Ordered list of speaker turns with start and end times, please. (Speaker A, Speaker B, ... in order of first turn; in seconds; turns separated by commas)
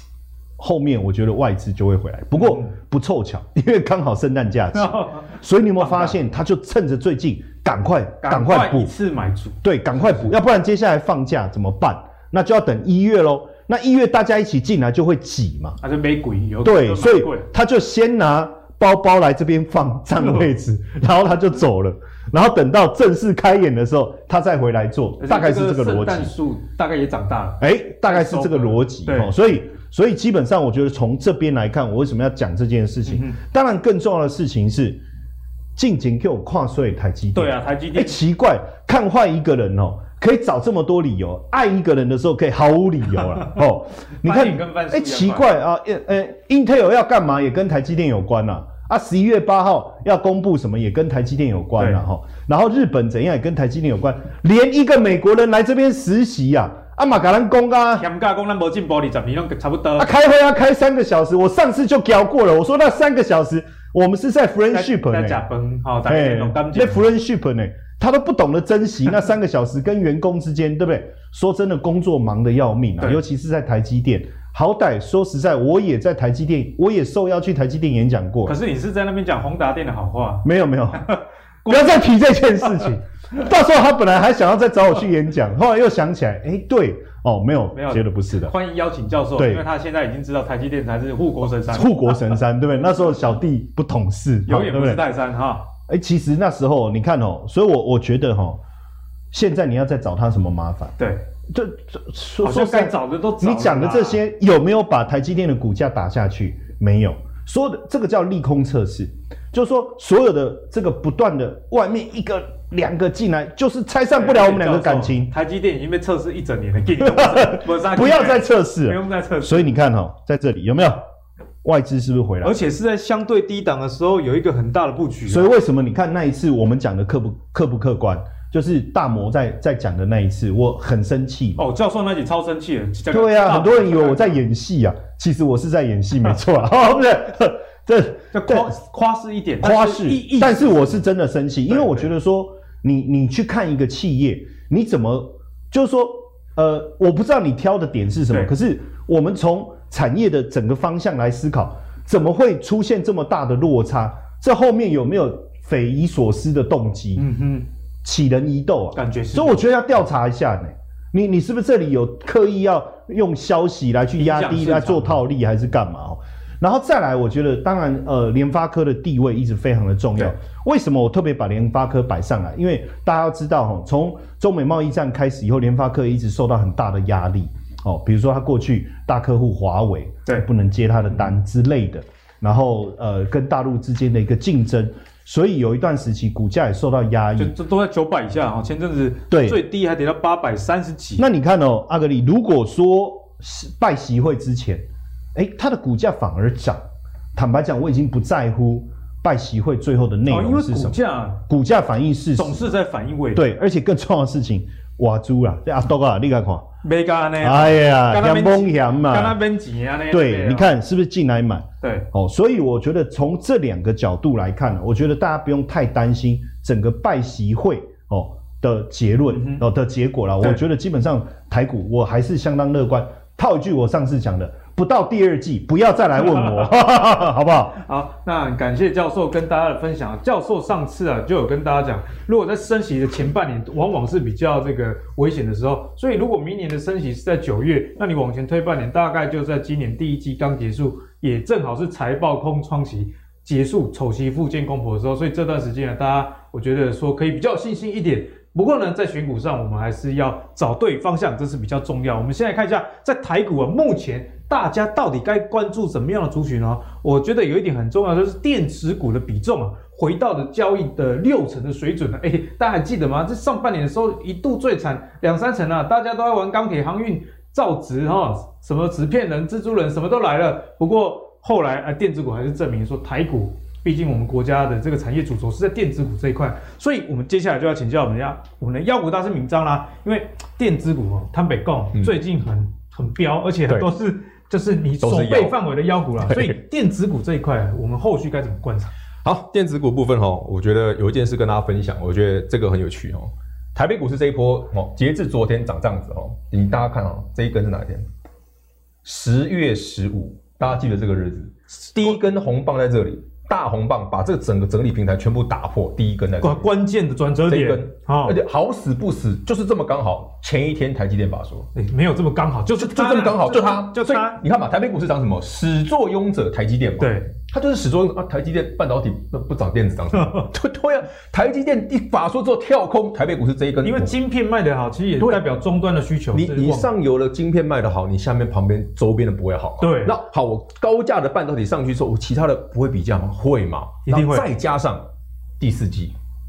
Speaker A: 0.6-8.9, Speaker B: 2.4-2.7, Speaker B: 4.7-6.2, Speaker B: 8.2-10.2, Speaker A: 9.6-15.8, Speaker B: 15.8-17.5, Speaker A: 16.6-26.3, Speaker B: 25.2-29.3, Speaker A: 27.6-35.0, Speaker B: 33.1-33.4, Speaker A: 35.8-58.0, Speaker B: 37.3-38.2, Speaker B: 44.2-45.5, Speaker B: 58.0-60.1, Speaker A: 60.0-65.4, Speaker B: 64.7-67.1, Speaker A: 66.0-78.6, Speaker B: 78.5-80.5, Speaker A: 80.4-81.2, Speaker B: 81.0-82.0, Speaker A: 81.7-88.5, Speaker B: 87.7-91.9, Speaker A: 89.4-89.6, Speaker A: 91.7-95.1, Speaker B: 94.5-95.7, Speaker A: 95.9-98.6, Speaker A: 99.3-101.0, Speaker B: 101.0-101.2, Speaker A: 101.5-115.3, Speaker B: 102.4-104.2, Speaker B: 114.2-119.7, Speaker A: 117.0-121.0, Speaker A: 121.6-122.6, Speaker B: 122.4-125.5, Speaker A: 125.3-131.6, Speaker B: 131.6-134.4, Speaker A: 133.1-138.7, Speaker B: 138.3-141.0, Speaker A: 139.6-157.3, Speaker B: 141.7-142.1, Speaker B: 157.2-157.7, Speaker A: 158.0-187.6, Speaker B: 158.9-159.6, Speaker B: 164.2-165.2, Speaker B: 187.4-191.3, Speaker A: 189.3-189.6, Speaker A: 191.2-196.8, Speaker A: 197.3-202.7, Speaker B: 200.3-201.4, Speaker B: 202.3-203.4, Speaker A: 203.3-206.7, Speaker B: 206.8-210.7, Speaker A: 207.4-209.4, Speaker A: 210.1-227.8, Speaker B: 211.8-212.1, Speaker B: 219.3-219.6, Speaker B: 226.4-226.7, Speaker B: 227.8-288.9, Speaker C: 285.0-285.6, Speaker C: 286.2-286.6, Speaker C: 289.2-298.1, Speaker C: 299.1-306.7, Speaker B: 306.4-308.4, Speaker C: 307.5-311.7, Speaker B: 311.8-314.4, Speaker C: 312.8-324.1, Speaker B: 317.0-317.3, Speaker B: 320.1-320.5, Speaker B: 323.8-326.9, Speaker C: 325.2-325.4, Speaker C: 326.3-335.1, Speaker B: 329.8-330.2, Speaker B: 334.1-334.5, Speaker C: 335.6-336.1